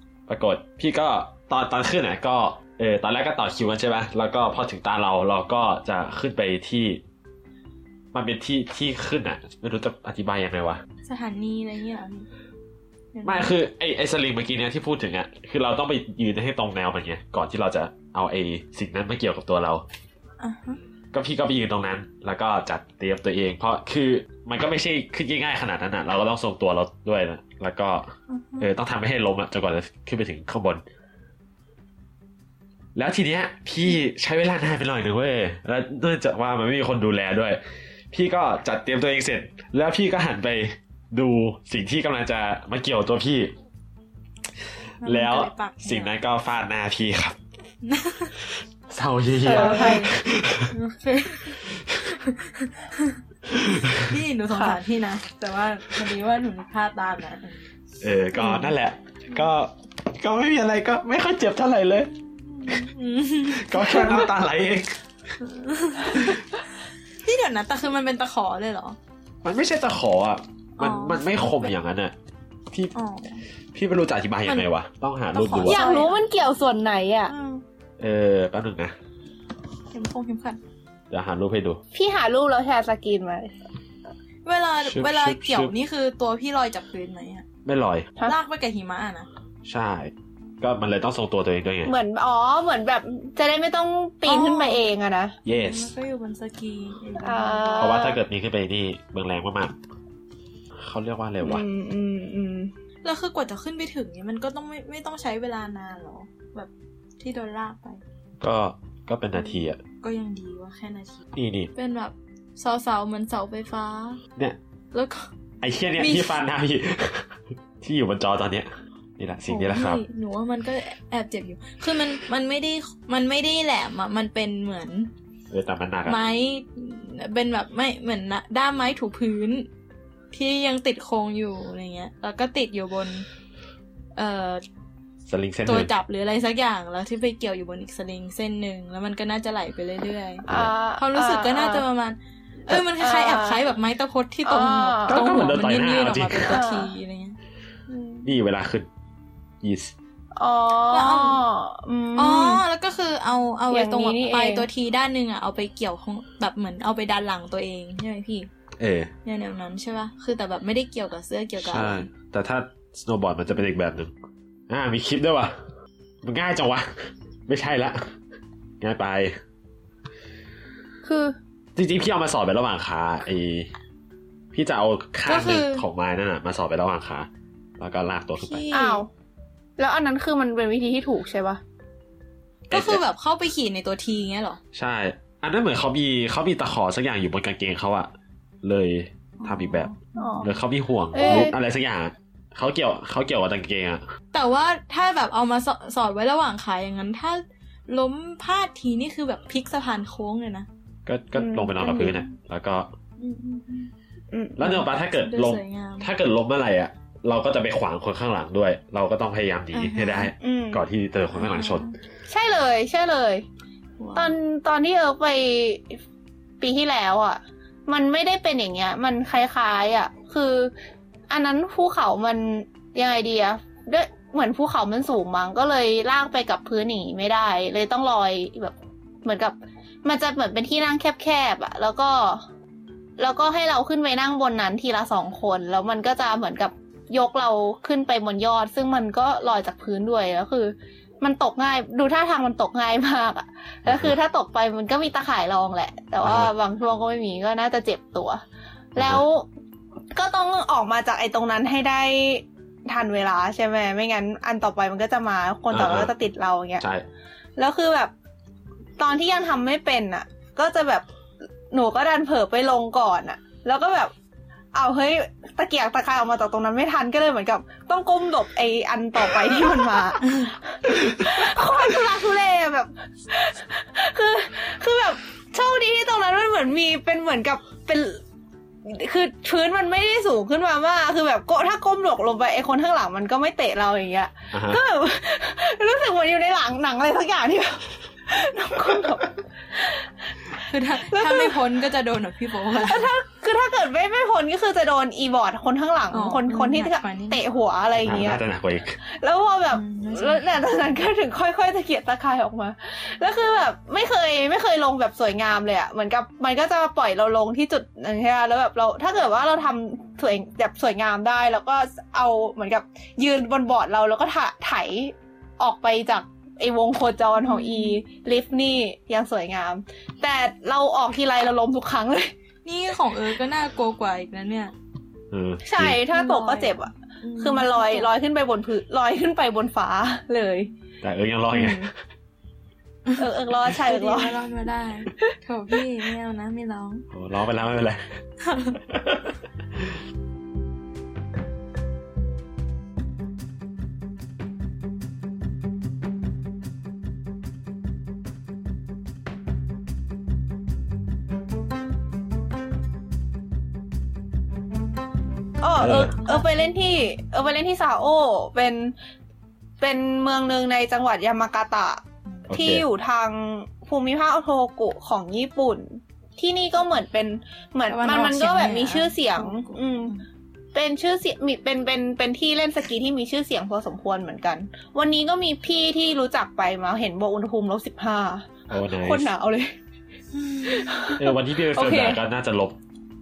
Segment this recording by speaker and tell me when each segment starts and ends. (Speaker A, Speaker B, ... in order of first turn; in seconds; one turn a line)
Speaker A: 0.3-7.0
Speaker A: 8.1-10.8
Speaker B: 11.1-12.3
Speaker B: 13.1-13.5
Speaker A: 13.2-19.9
Speaker B: 20.4-20.8
Speaker A: 21.1-30.8
Speaker B: 28.3-28.7
Speaker A: 33.0-37.6
Speaker A: 38.1-43.5
Speaker B: 45.0-46.1
Speaker A: 45.0-47.4
Speaker B: 47.8-48.3
Speaker A: 48.9-50.7
Speaker C: 49.4-50.1
Speaker B: 49.5-50.1
Speaker B: 50.7-51.6
Speaker A: 51.7-52.1
Speaker B: 52.2-53.2
Speaker A: 53.5-54.2
Speaker B: 53.9-57.6
Speaker C: 54.5-54.8
Speaker A: 58.0-62.1
Speaker B: 58.4-58.7
Speaker B: 62.4-64.3
Speaker A: 63.5-65.0
Speaker B: 65.4-66.5
Speaker A: 66.1-66.4
Speaker B: 67.2-69.0
Speaker A: 69.4-72.2
Speaker B: 70.8-71.7
Speaker B: 72.9-73.4
Speaker A: 73.7-75.8
Speaker B: 75.3-76.2
Speaker C: 75.6-77.3
Speaker B: 77.3-77.6
Speaker A: 78.0-78.9
Speaker B: 79.9-80.6
Speaker A: 81.1-81.8
Speaker C: 81.9-83.5
Speaker B: 84.5-87.5
Speaker A: 84.9-85.7
Speaker A: 87.7-88.1
Speaker B: 88.3-89.3
Speaker A: 89.7-91.9
Speaker C: 91.9-95.3
Speaker B: 94.3-94.8
Speaker A: 95.5-95.9
Speaker B: 95.5-98.0
Speaker C: 97.2-98.2
Speaker A: 97.8-99.8
Speaker A: 100.8-101.6
Speaker C: 101.4-102.7
Speaker B: 103.0-108.0
Speaker A: 108.4-109.8
Speaker B: 109.3-111.2
Speaker A: 111.3-111.7
Speaker B: 111.8-114.2
Speaker B: 114.9-115.3
Speaker A: 115.6-120.0
Speaker B: 116.0-116.4
Speaker B: 119.5-125.1
Speaker A: 125.5-126.2
Speaker B: 126.1-129.7
Speaker B: 130.3-133.2
Speaker B: 134.2-134.6
Speaker A: 135.3-135.9
Speaker B: 135.7-140.5
Speaker C: 140.5-141.8
Speaker A: 140.5-140.7
Speaker B: 141.0-147.4
Speaker C: 142.7-143.6
Speaker C: 144.5-145.2
Speaker A: 145.1-146.6
Speaker C: 146.5-146.9
Speaker C: 147.9-148.3
Speaker A: 148.2-148.9
Speaker A: 149.6-149.9
Speaker C: 150.4-152.6
Speaker B: 150.9-151.4
Speaker B: 152.2-158.5
Speaker C: 153.7-154.7
Speaker A: 158.8-159.1
Speaker B: 159.2-162.1
Speaker A: 161.6-164.1
Speaker A: 164.7-165.5
Speaker A: 166.2-168.1
Speaker A: 168.8-169.4
Speaker C: 171.0-171.4
Speaker A: 171.8-173.7
Speaker A: 174.5-178.7
Speaker B: 175.3-175.8
Speaker B: 178.4-179.0
Speaker C: 178.7-179.1
Speaker C: 179.8-181.6
Speaker A: 182.7-183.0
Speaker B: 182.7-184.6
Speaker A: 184.7-188.1
Speaker A: 188.6-189.9
Speaker B: 189.4-190.5
Speaker C: 190.2-190.5
Speaker A: 190.4-194.0
Speaker C: 191.1-191.6
Speaker B: 191.2-191.5
Speaker B: 194.3-200.7
Speaker A: 201.1-202.9
Speaker C: 201.4-202.3
Speaker B: 203.2-203.9
Speaker C: 204.3-204.8
Speaker A: 204.6-211.9
Speaker B: 205.3-206.1
Speaker B: 209.7-210.3
Speaker C: 210.4-210.8
Speaker B: 211.3-211.9
Speaker C: 212.3-213.5
Speaker B: 214.0-214.3
Speaker C: 214.2-216.0
Speaker C: 216.6-220.7
Speaker C: 221.3-232.4
Speaker C: 233.2-248.4
Speaker A: 243.9-244.2
Speaker A: 246.2-246.5
Speaker A: 249.0-249.2
Speaker C: 249.0-249.5
Speaker C: 250.1-256.8
Speaker A: 255.7-256.1
Speaker A: 256.8-257.1
Speaker C: 257.6-258.1
Speaker C: 259.0-261.1
Speaker C: 261.7-264.1
Speaker C: 264.7-278.2
Speaker C: 278.9-290.1
Speaker A: 284.5-284.8
Speaker B: 290.6-293.1
Speaker C: 291.0-291.6
Speaker C: 292.8-298.4
Speaker B: 296.1-297.4
Speaker A: 298.0-299.0
Speaker C: 299.0-322.3
Speaker B: 299.7-301.0
Speaker B: 317.4-318.0
Speaker B: 322.6-324.7
Speaker A: 325.3-326.0
Speaker C: 325.6-330.7
Speaker B: 326.1-328.1
Speaker A: 331.0-331.9
Speaker C: 331.5-331.9
Speaker B: 333.1-337.1
Speaker C: 333.2-334.4
Speaker A: 337.1-338.2
Speaker B: 338.4-338.8
Speaker A: 338.8-340.0
Speaker C: 355.6-358.9
Speaker A: 355.8-356.1
Speaker C: 359.8-370.2
Speaker A: 362.5-362.9
Speaker B: 367.9-370.2
Speaker C: 370.7-379.7
Speaker A: 378.7-379.3
Speaker B: 380.3-380.9
Speaker C: 380.6-382.2
Speaker A: 381.2-382.8